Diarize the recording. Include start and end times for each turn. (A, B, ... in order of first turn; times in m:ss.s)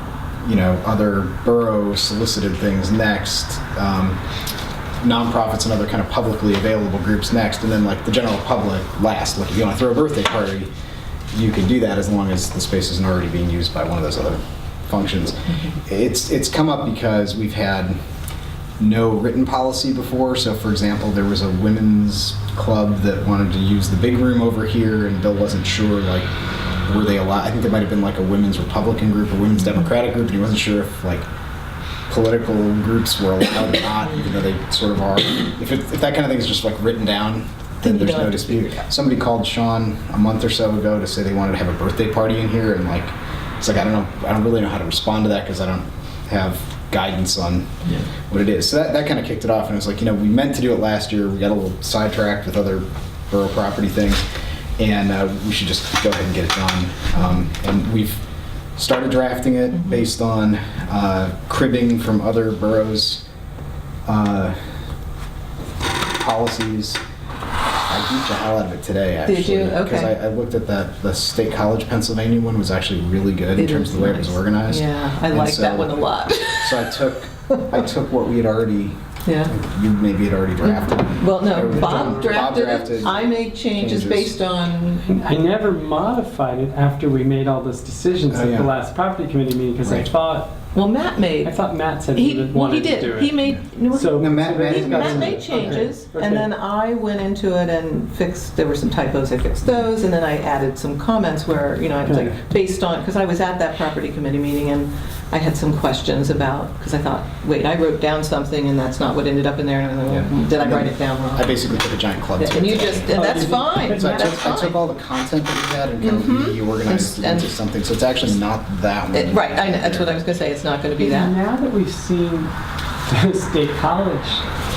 0:00.4-0:04.2 A
0:05.0-0:10.7 A
0:11.3-0:18.0 A
0:18.8-0:26.3 A
0:26.8-0:31.3 A
0:32.1-0:54.2 A
0:37.8-0:38.8 B
0:54.8-0:58.2 A
0:58.8-1:03.2 A
1:04.0-1:04.6 A
1:06.2-1:07.0 A
1:07.9-1:16.0 A
1:09.2-1:10.1 B
1:13.5-1:17.5 B
1:16.6-1:24.3 A
1:19.2-1:19.5 B
1:20.6-1:25.2 B
1:21.6-1:22.3 C
1:25.1-1:30.5 C
1:28.3-1:28.7 A
1:29.8-1:30.1 A
1:30.7-1:31.6 B
1:31.4-1:33.4 C
1:32.1-1:51.6 B
1:33.9-1:36.5 C
1:34.1-1:35.8 A
1:42.0-1:42.3 C
1:50.1-1:53.2 A
1:52.3-1:54.8 B
1:53.1-1:54.6 C
1:53.8-2:00.1 A
1:56.0-1:57.5 B
1:59.1-2:01.4 B
2:01.0-2:02.5 C
2:03.1-2:04.4 C